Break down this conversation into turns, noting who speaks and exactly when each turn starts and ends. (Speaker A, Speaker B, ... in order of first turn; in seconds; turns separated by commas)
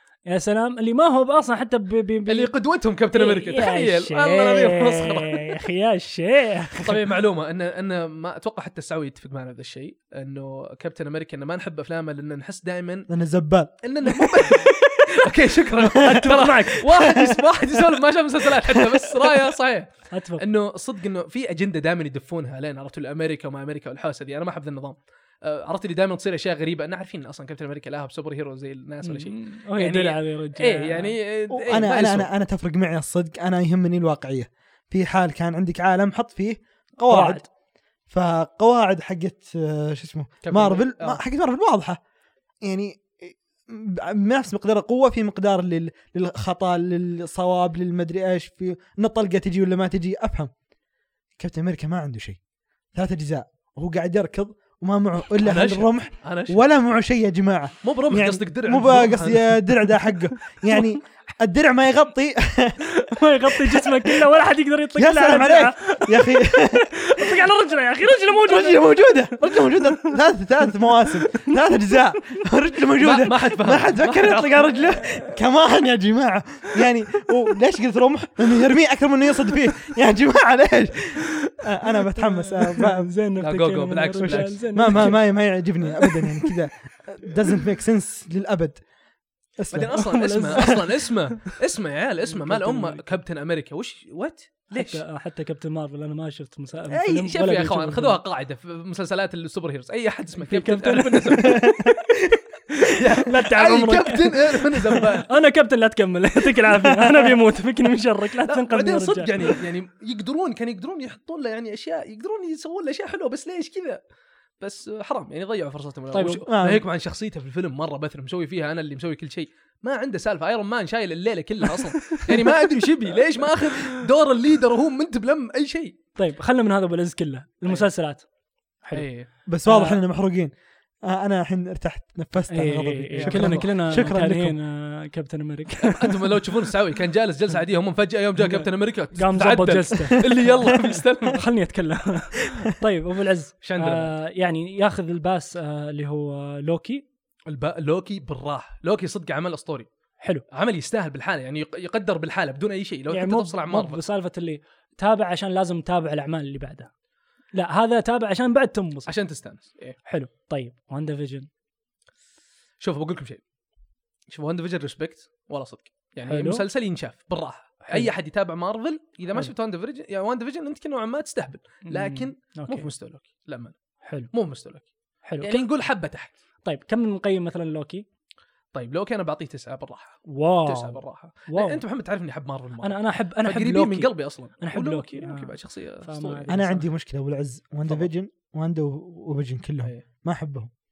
Speaker A: 0.3-2.5, Speaker B: 2.3-5.6, Speaker A: 3.1-7.0, Speaker B: 6.8-13.1, Speaker C: 13.1-13.7, Speaker B: 13.8-32.3, Speaker A: 14.2-14.9, Speaker A: 16.0-16.9, Speaker A: 20.1-20.4, Speaker A: 29.0-31.1, Speaker C: 31.7-37.4, Speaker A: 37.0-37.5, Speaker C: 38.1-42.0, Speaker B: 40.4-41.2, Speaker C: 42.6-50.5, Speaker C: 51.4-52.4, Speaker C: 52.9-62.8, Speaker B: 55.4-56.6, Speaker B: 57.8-59.5, Speaker A: 63.0-70.1, Speaker C: 63.4-64.2, Speaker C: 65.0-66.9, Speaker C: 68.4-83.1, Speaker B: 73.0-74.6, Speaker A: 82.2-85.3, Speaker B: 83.4-85.0, Speaker C: 84.3-88.8, Speaker A: 85.9-86.5, Speaker C: 89.6-89.9, Speaker B: 89.7-95.0, Speaker A: 89.9-91.0, Speaker A: 92.3-93.2, Speaker A: 94.7-98.2, Speaker B: 96.9-101.7, Speaker A: 100.4-102.0, Speaker A: 102.7-109.5, Speaker B: 102.9-105.3, Speaker C: 106.7-107.2, Speaker B: 108.4-114.0, Speaker B: 114.6-126.0, Speaker A: 116.1-116.4, Speaker C: 116.5-116.8, Speaker A: 122.0-122.8, Speaker A: 123.6-123.9, Speaker A: 126.2-128.2, Speaker B: 128.9-129.3, Speaker C: 129.5-130.5, Speaker A: 129.7-130.0, Speaker C: 131.0-134.6, Speaker A: 132.5-136.5, Speaker B: 133.2-133.8, Speaker B: 135.8-141.4, Speaker A: 138.4-147.0, Speaker B: 143.6-144.1, Speaker B: 147.5-149.9, Speaker B: 150.5-154.0, Speaker A: 153.1-156.9, Speaker A: 157.5-159.1, Speaker B: 159.1-160.0, Speaker A: 160.1-161.5, Speaker B: 162.8-163.4, Speaker B: 164.3-173.7, Speaker A: 166.3-166.6, Speaker A: 171.9-172.9, Speaker A: 174.0-174.3, Speaker B: 174.3-174.9, Speaker A: 175.2-175.6, Speaker B: 175.4-176.3, Speaker A: 176.6-178.0, Speaker B: 178.7-186.5, Speaker A: 180.3-181.8, Speaker A: 182.8-186.9, Speaker C: 186.5-190.7